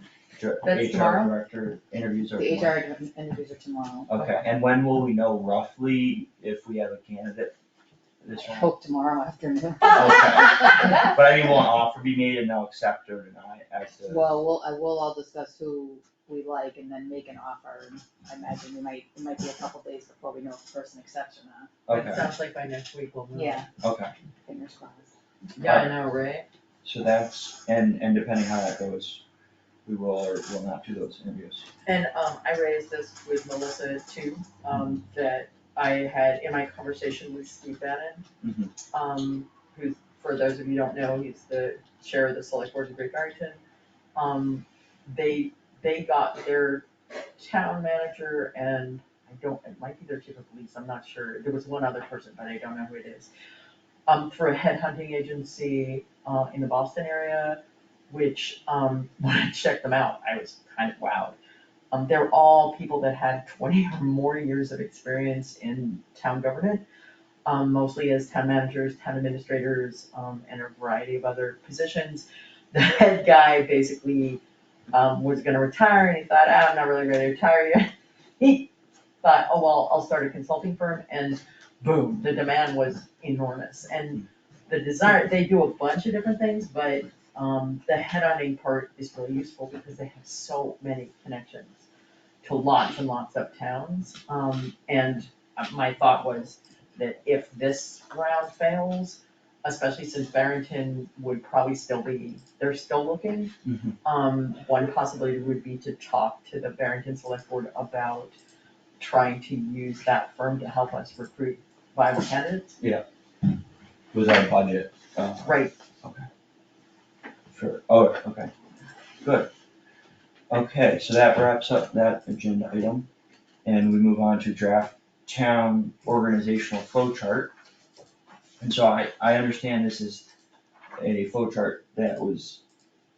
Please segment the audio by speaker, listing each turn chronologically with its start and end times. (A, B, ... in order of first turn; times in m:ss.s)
0:00.4-0:02.8 A
0:00.6-0:01.3 B
0:02.3-0:04.1 C
0:04.1-0:07.5 A
0:08.2-0:08.7 A
0:08.3-0:10.7 C
0:09.8-0:14.4 A
0:14.1-0:21.7 C
0:21.9-0:22.3 A
0:21.9-0:23.6 B
0:23.4-0:23.6 C
0:23.8-0:24.1 A
0:24.4-0:25.1 C
0:25.6-0:26.4 B
0:25.6-0:26.0 A
0:26.8-0:29.2 A
0:29.8-0:31.7 A
0:31.8-0:38.2 B
0:38.4-0:38.7 A
0:38.9-0:43.6 B
0:44.1-0:46.8 B
0:47.4-0:53.3 B
0:54.1-1:01.4 B
1:01.9-1:06.8 B
1:07.4-1:14.4 B
1:14.9-1:18.7 B
1:19.2-1:31.8 B
1:32.4-1:43.5 B
1:43.6-1:43.9 A
1:44.0-1:48.3 B
1:49.0-1:52.8 B
1:54.1-1:56.3 A
1:55.4-1:55.7 B
1:57.5-1:58.5 A
1:59.2-1:59.5 A
2:00.5-2:03.1 A
2:03.6-2:07.5 A
2:08.6-2:10.3 A
2:11.0-2:12.6 A